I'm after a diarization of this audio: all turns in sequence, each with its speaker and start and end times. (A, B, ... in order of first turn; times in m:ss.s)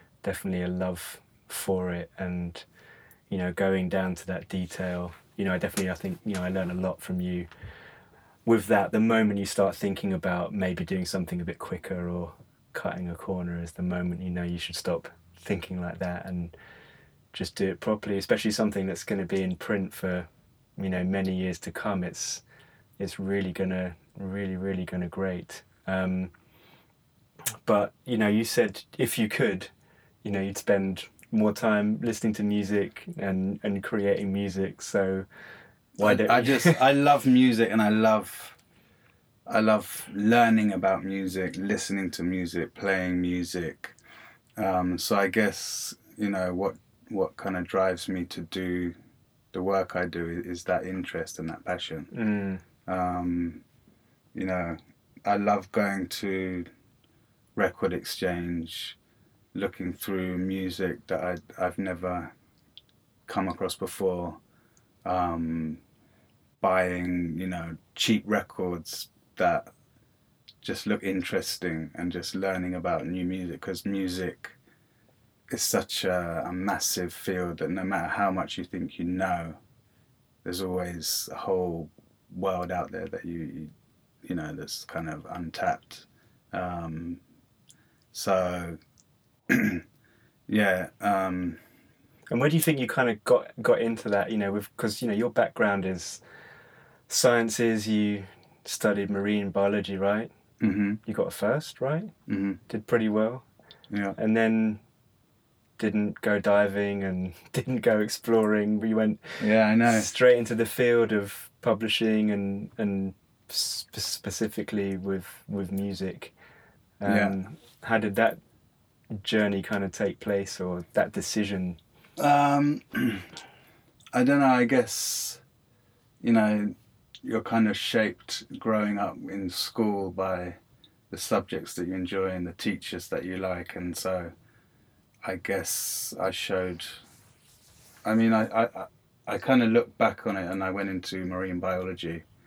0:00.2-0:02.6 A
0:03.3-0:07.5 A
0:08.4-0:16.5 A
0:17.3-0:22.4 A
0:23.0-0:26.3 A
0:27.6-0:29.7 A
0:30.2-0:35.2 A
0:36.0-0:36.8 A
0:36.0-0:38.6 B
0:39.4-0:44.0 B
0:44.6-0:49.0 B
0:49.5-0:52.1 B
0:52.1-0:52.6 A
0:52.8-0:53.6 B
0:54.3-0:56.7 B
0:57.6-0:59.0 B
0:59.5-1:02.3 B
1:03.3-1:04.4 B
1:05.0-1:05.8 B
1:06.6-1:09.7 B
1:10.6-1:14.6 B
1:15.5-1:19.6 B
1:20.4-1:23.7 B
1:24.2-1:27.2 B
1:28.1-1:28.8 B
1:29.5-1:29.8 B
1:30.5-1:31.6 B
1:32.3-1:36.2 A
1:37.1-1:40.3 A
1:40.6-1:41.0 B
1:41.0-1:42.1 A
1:42.3-1:42.6 B
1:42.7-1:43.4 A
1:43.9-1:44.2 B
1:44.2-1:44.8 A
1:45.8-1:56.3 A
1:49.4-1:50.1 B
1:57.0-1:58.4 A
1:57.0-1:57.4 B
1:59.1-2:01.8 A
2:02.2-2:03.3 B
2:04.1-2:05.4 B
2:06.2-2:10.6 B
2:11.1-2:14.3 B
2:15.2-2:17.0 B
2:18.0-2:22.2 B